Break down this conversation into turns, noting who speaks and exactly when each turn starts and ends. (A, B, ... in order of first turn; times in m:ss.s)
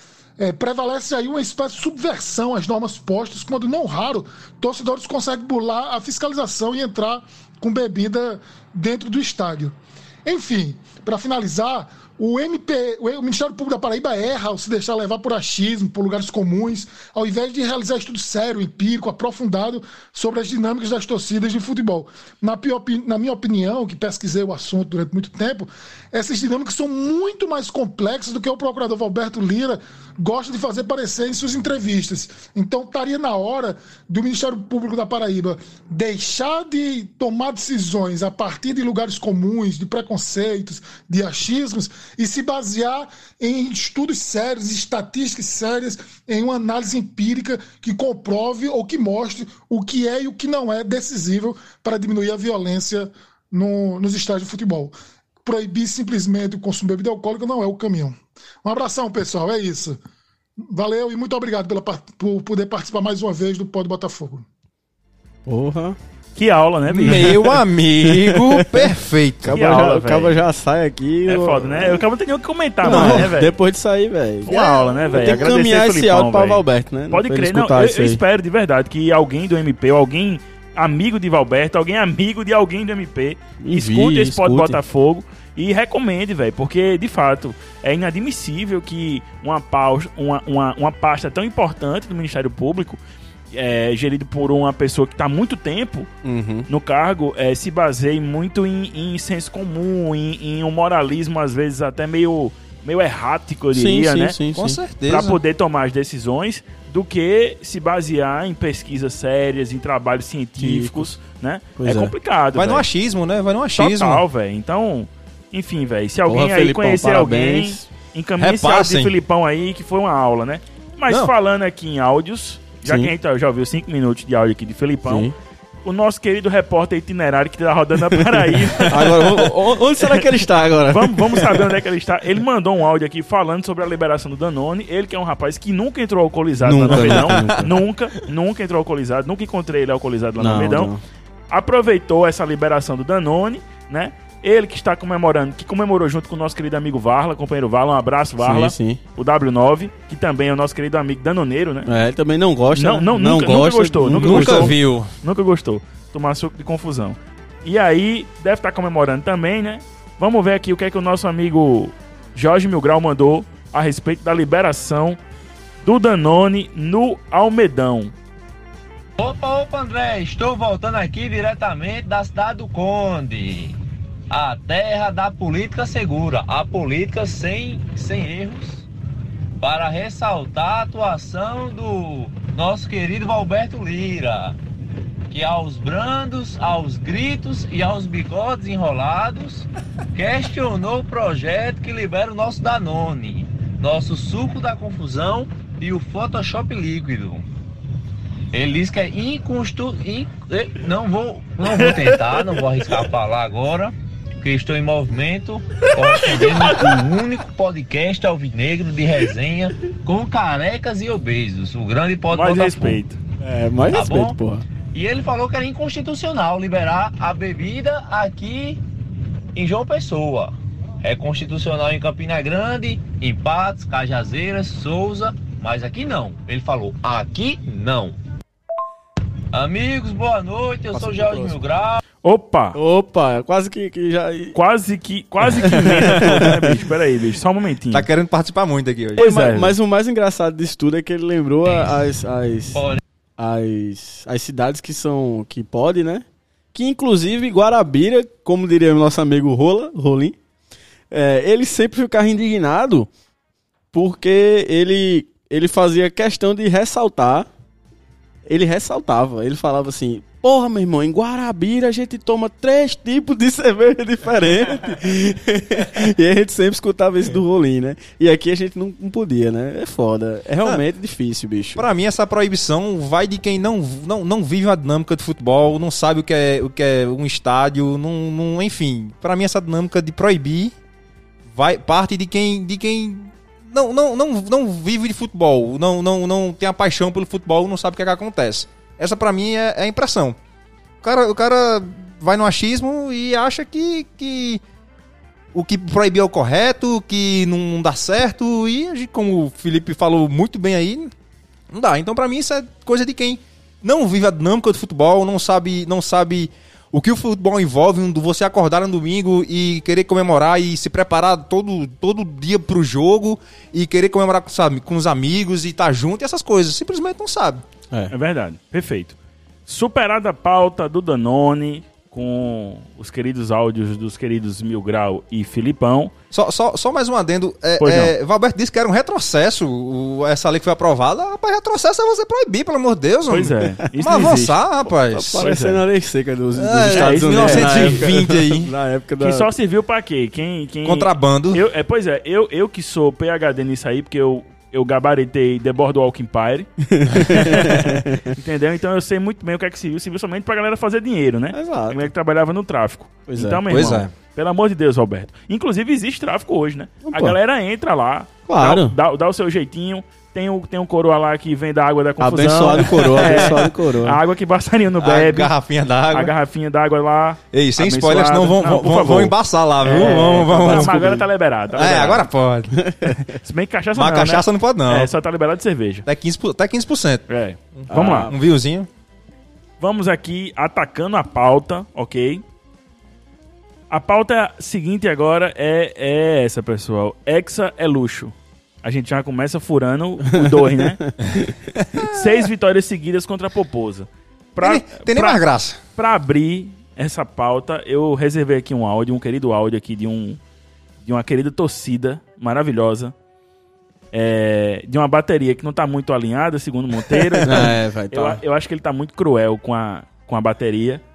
0:00.4-1:00.0 A
1:00.7-1:04.4 A
1:05.4-1:06.0 B
1:06.4-1:07.4 C
1:06.9-1:09.7 D
1:07.0-1:12.0 B
1:09.5-1:10.4 C
1:11.3-1:13.5 C
1:12.8-1:18.2 B
1:12.9-1:13.3 D
1:14.4-1:33.0 C
1:14.5-1:15.0 D
1:23.6-1:24.8 B
1:33.5-1:36.1 C
1:36.2-1:36.7 B
1:36.7-1:44.4 C
1:43.7-1:44.8 B
1:44.5-1:45.4 D
1:45.0-1:52.8 C
1:50.6-1:51.1 B
1:51.8-1:52.1 B
1:52.5-1:54.2 D
1:53.8-2:05.3 C
1:56.3-1:57.9 B
1:58.4-1:59.1 D
2:02.8-2:03.1 B
2:05.0-2:05.3 B
2:05.8-2:09.5 C
2:08.2-2:11.8 B
2:10.9-2:20.9 C
2:16.6-2:17.8 B
2:16.9-2:17.6 D
2:20.4-2:21.0 B
2:21.5-2:31.9 C
2:28.4-2:29.0 B
2:31.8-2:34.8 B
2:32.7-2:45.2 C
2:34.1-2:35.1 D
2:45.8-2:48.1 C
2:49.2-2:53.8 E
2:54.3-2:58.8 E
2:59.6-3:04.6 E
3:05.3-3:17.5 E
3:18.5-3:33.0 E
3:26.4-3:26.6 C
3:32.3-3:33.2 C
3:33.4-3:34.6 B
3:33.9-3:34.4 E
3:34.9-3:38.8 E
3:39.5-3:48.2 E
3:49.5-3:52.0 E
3:50.9-3:51.6 B
3:52.2-3:52.8 C
3:52.7-3:54.6 B
3:54.5-3:58.1 C
3:55.6-3:56.8 B
3:57.9-3:59.2 D
3:59.2-3:59.7 C
3:59.2-4:02.8 B
4:03.4-4:10.4 B
4:11.1-4:13.1 B
4:13.9-4:17.5 B
4:18.5-4:31.9 B
4:31.7-4:40.7 D
4:41.5-4:50.4 D
4:51.0-4:54.6 D
4:55.5-5:01.1 D
5:01.7-5:17.6 D
5:18.1-5:26.1 C
5:26.3-5:35.4 D
5:27.8-5:28.1 C
5:33.3-5:34.5 C
5:34.0-5:39.5 B
5:35.4-5:35.8 C
5:36.5-5:38.7 D
5:36.9-5:38.1 C
5:39.2-6:05.5 C
5:40.8-5:41.6 D
5:46.9-5:48.3 B
5:51.5-5:52.1 B
5:53.3-5:53.8 B
5:53.7-5:54.1 D
5:57.0-5:57.4 B
5:58.5-5:58.9 B
6:02.2-6:04.2 B
6:03.2-6:03.6 D
6:05.0-6:06.3 D
6:06.1-6:12.3 C
6:07.5-6:11.2 D
6:09.8-6:11.2 B
6:11.7-6:12.8 D
6:12.7-6:13.2 B
6:13.0-6:16.0 C
6:13.9-6:15.1 D
6:16.0-6:18.9 D
6:17.3-6:18.3 C
6:17.9-6:18.3 B
6:19.8-6:22.4 C
6:23.9-6:31.0 C
6:30.2-6:31.5 B
6:31.9-6:32.4 D
6:32.0-6:35.4 C
6:34.6-6:35.8 D
6:36.0-6:40.4 C
6:41.0-6:43.1 C
6:44.1-6:51.0 C
6:47.4-6:48.4 B